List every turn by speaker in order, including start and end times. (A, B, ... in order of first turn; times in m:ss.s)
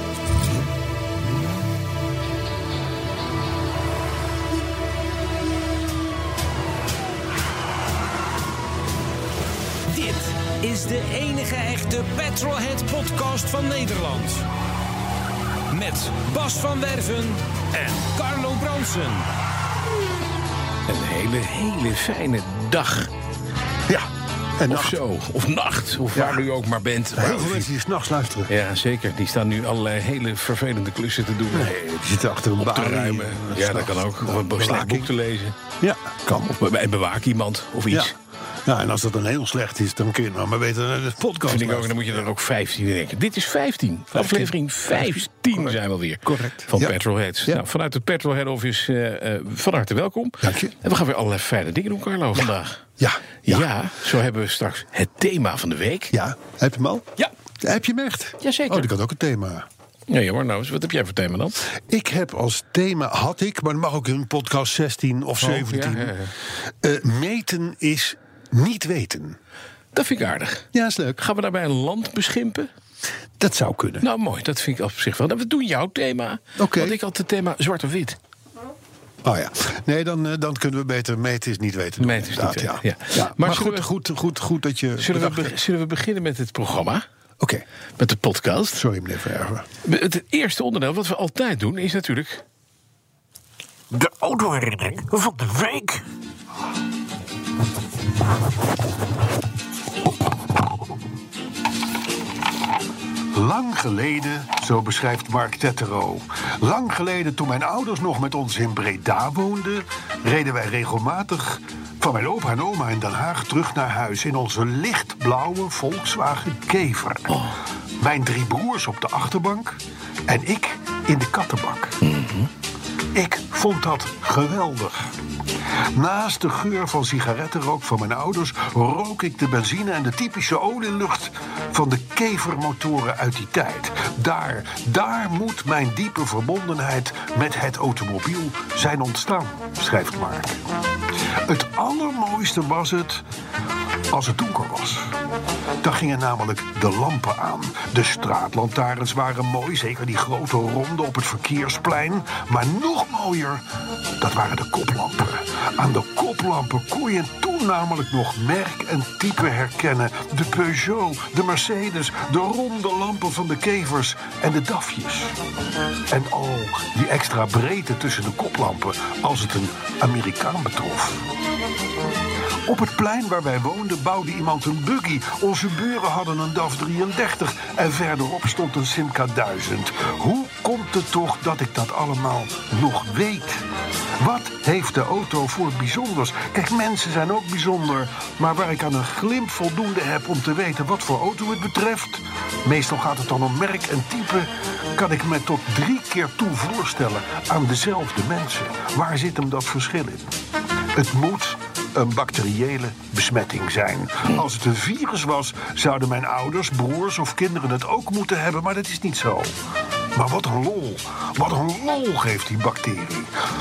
0:09.9-0:14.4 A
0:15.7-0:19.2 A
0:20.9-0:23.1 B
0:23.9-0:25.0 C
0:24.7-0:27.7 B
0:26.1-0:26.4 C
0:27.1-0:28.5 C
0:28.5-0:31.7 B
0:31.5-0:35.1 C
0:32.6-0:35.6 B
0:35.8-0:36.5 C
0:36.5-0:38.1 B
0:38.6-0:42.2 C
0:41.4-0:52.8 B
0:44.1-0:47.6 C
0:50.4-0:50.7 C
0:53.0-0:53.7 C
0:53.4-0:56.1 B
0:56.1-0:57.1 C
0:57.6-0:59.6 C
0:58.4-0:58.9 B
1:00.1-1:01.6 B
1:01.9-1:06.2 C
1:05.4-1:06.3 B
1:06.8-1:09.4 C
1:09.9-1:10.7 B
1:10.7-1:11.2 C
1:11.2-1:12.7 B
1:13.4-1:14.1 C
1:14.0-1:18.2 B
1:16.6-1:17.0 C
1:19.2-1:25.5 C
1:22.0-1:23.9 B
1:25.0-1:27.0 B
1:28.0-1:28.8 B
1:28.7-1:29.6 C
1:29.8-1:32.4 B
1:33.9-1:36.0 D
1:43.3-1:57.5 C
1:57.3-1:57.6 B
1:58.0-2:02.0 C
2:02.0-2:02.5 B
2:03.1-2:05.1 C
2:05.9-2:20.6 C
2:21.4-2:23.2 C
2:24.1-2:25.1 C
2:25.8-2:33.6 C
2:34.2-2:45.4 C
2:46.1-2:51.3 C
2:52.6-3:03.6 C
3:04.2-3:20.3 C
3:20.9-3:29.6 C
3:30.1-3:33.3 C